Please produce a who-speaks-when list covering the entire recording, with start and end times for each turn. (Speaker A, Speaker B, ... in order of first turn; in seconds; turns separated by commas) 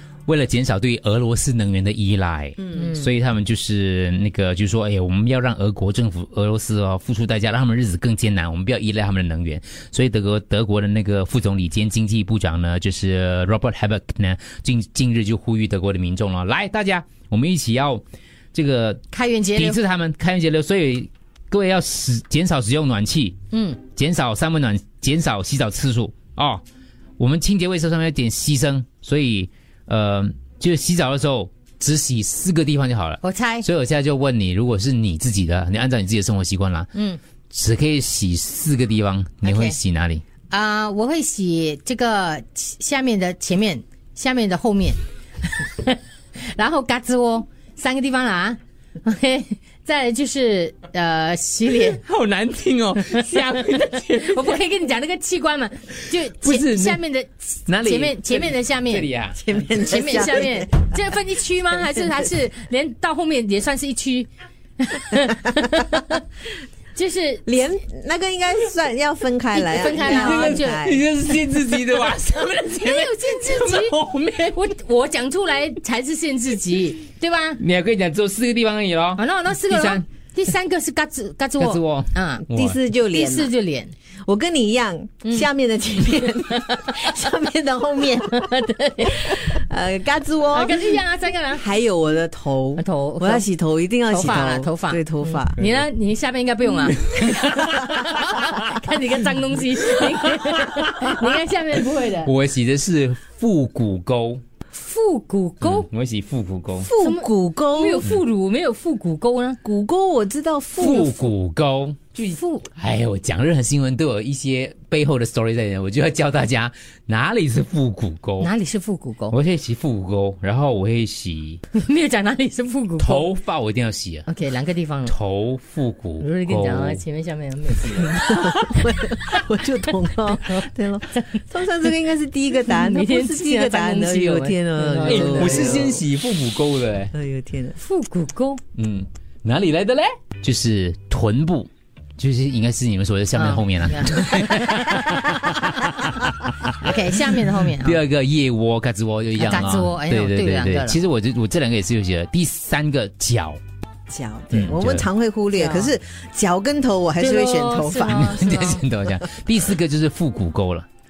Speaker A: 0.3-18.0, Speaker B: 2.8-3.0, Speaker A: 18.5-19.0, Speaker B: 19.1-19.8, Speaker A: 19.6-23.4, Speaker B: 23.5-23.8, Speaker A: 23.9-26.6, Speaker A: 27.2-36.9, Speaker B: 33.2-33.7, Speaker B: 37.0-37.2, Speaker A: 37.5-40.2, Speaker B: 39.4-39.8, Speaker B: 40.5-52.0, Speaker A: 51.9-54.6, Speaker B: 53.1-53.4, Speaker B: 54.0-59.1, Speaker A: 56.0-57.0, Speaker A: 57.7-59.4, Speaker C: 59.4-60.9, Speaker B: 59.8-66.3, Speaker B: 67.0-67.5, Speaker C: 67.5-71.0, Speaker B: 69.5-70.9, Speaker A: 69.9-74.6, Speaker B: 72.1-77.6, Speaker A: 77.6-80.0, Speaker B: 79.2-82.5, Speaker A: 81.6-82.8, Speaker C: 82.5-83.5, Speaker B: 83.1-84.0, Speaker C: 84.2-95.6, Speaker B: 86.2-87.2, Speaker B: 88.3-89.6, Speaker B: 90.5-91.7, Speaker B: 92.8-93.5, Speaker B: 94.1-102.3, Speaker A: 97.0-98.5, Speaker A: 100.0-101.3, Speaker A: 102.2-104.4, Speaker B: 104.7-105.9, Speaker A: 105.6-106.9, Speaker C: 106.8-108.1, Speaker B: 107.0-109.6, Speaker C: 109.6-111.3, Speaker A: 110.8-118.5, Speaker B: 112.3-112.7, Speaker B: 118.4-119.3, Speaker A: 119.3-121.6, Speaker B: 121.7-123.3, Speaker A: 123.0-124.3, Speaker B: 124.3-125.1, Speaker A: 125.1-127.0, Speaker B: 126.2-131.9, Speaker C: 128.1-136.0, Speaker B: 132.5-135.9, Speaker A: 135.0-137.1, Speaker C: 137.1-137.8, Speaker B: 137.8-138.6, Speaker A: 138.8-153.6, Speaker B: 143.3-145.0, Speaker B: 146.8-148.0, Speaker B: 149.4-151.0, Speaker C: 154.1-158.3, Speaker A: 154.5-155.1, Speaker B: 155.5-155.9, Speaker B: 157.2-158.8, Speaker A: 158.0-160.9